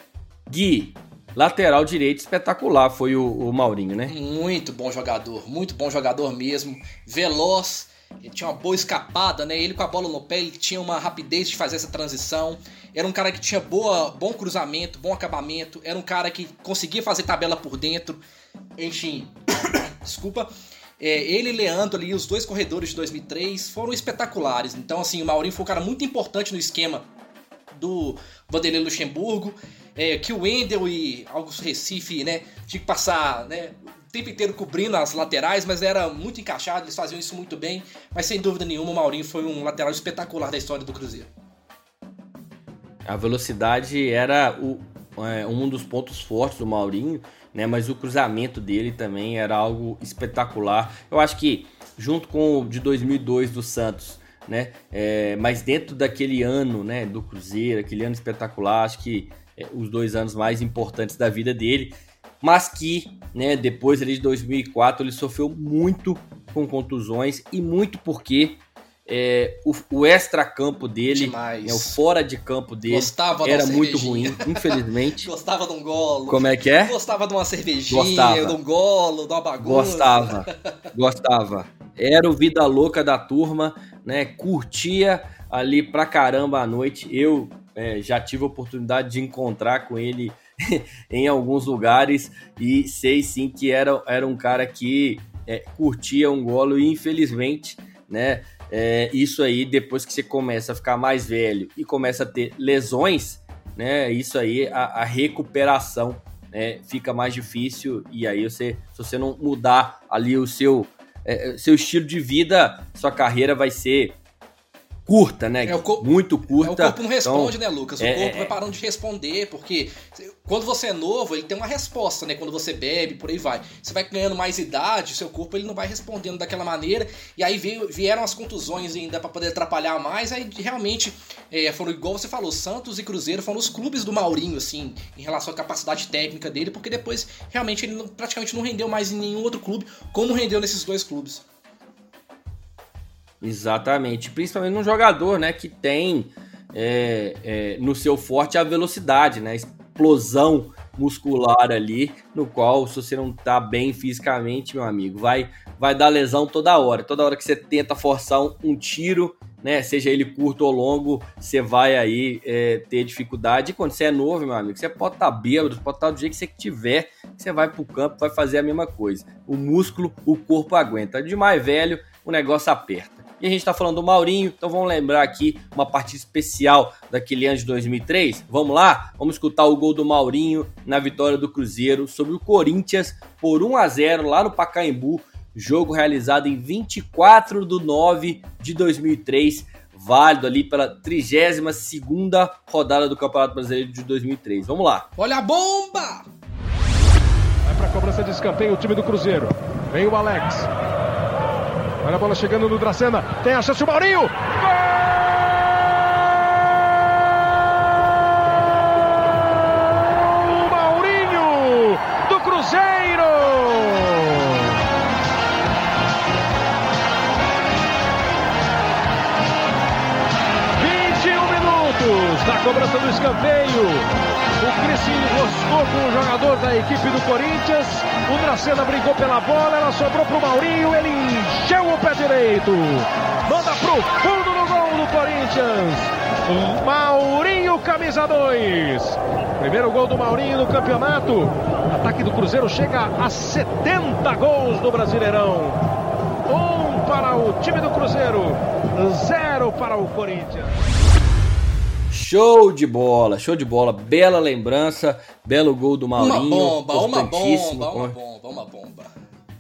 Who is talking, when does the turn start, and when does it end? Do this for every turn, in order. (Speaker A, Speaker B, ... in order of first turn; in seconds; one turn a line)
Speaker A: 0.5-4.1
Speaker B: 4.1-18.2
Speaker B: 18.8-20.5
Speaker B: 21.0-27.1
Speaker B: 27.7-41.3
Speaker A: 43.0-75.3
Speaker B: 71.1-72.0
Speaker B: 72.9-80.5
Speaker A: 76.3-77.0
Speaker A: 77.9-78.6
Speaker A: 79.6-114.2
Speaker A: 115.1-118.5
Speaker B: 115.7-141.4
Speaker A: 143.4-195.1
Speaker B: 195.2-196.3
Speaker C: 197.6-200.7
Speaker C: 202.0-204.4
Speaker C: 209.9-214.7
Speaker C: 220.8-245.8
Speaker C: 246.4-250.9
Speaker A: 252.1-258.2
Speaker B: 256.2-259.1